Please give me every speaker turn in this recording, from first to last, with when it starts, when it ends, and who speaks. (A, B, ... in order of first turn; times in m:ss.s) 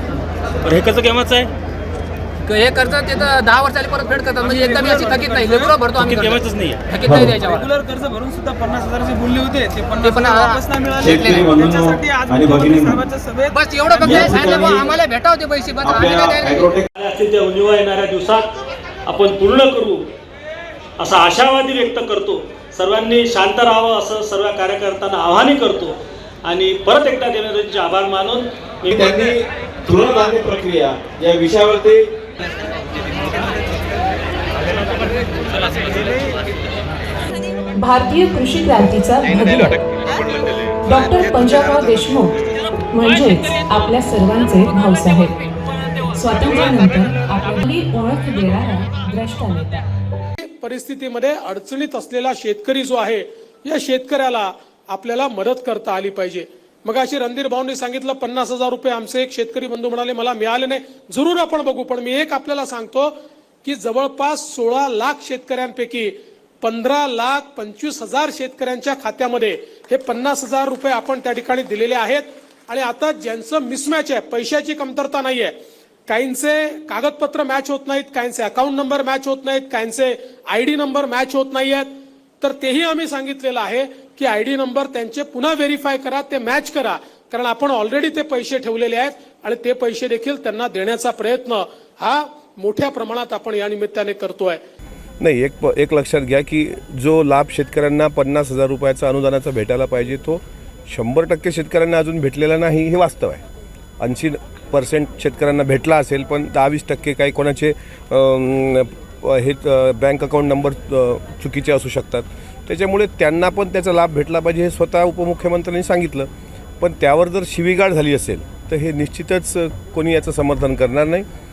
0:00.6-0:01.5 A
0:02.4-0:07.7 B
0:04.4-0:05.7 C
0:06.0-0:06.8 A
0:07.0-0:07.4 D
0:07.5-0:14.3 C
0:10.0-0:11.5 B
0:11.0-0:13.0 D
0:13.5-0:16.7 B
0:14.0-0:15.0 D
0:15.8-0:16.9 D
0:17.0-0:18.5 A
0:19.0-0:20.0 A
0:21.0-0:28.9 A
0:28.9-0:32.1 D
0:37.8-0:39.8 E
0:40.8-0:42.4 E
0:42.9-0:45.3 E
0:46.1-0:49.8 E
0:50.4-1:15.5 F
1:16.1-1:21.9 F
1:22.4-1:34.6 F
1:35.2-1:43.4 G
1:44.0-1:56.3 G
1:56.8-2:01.3 G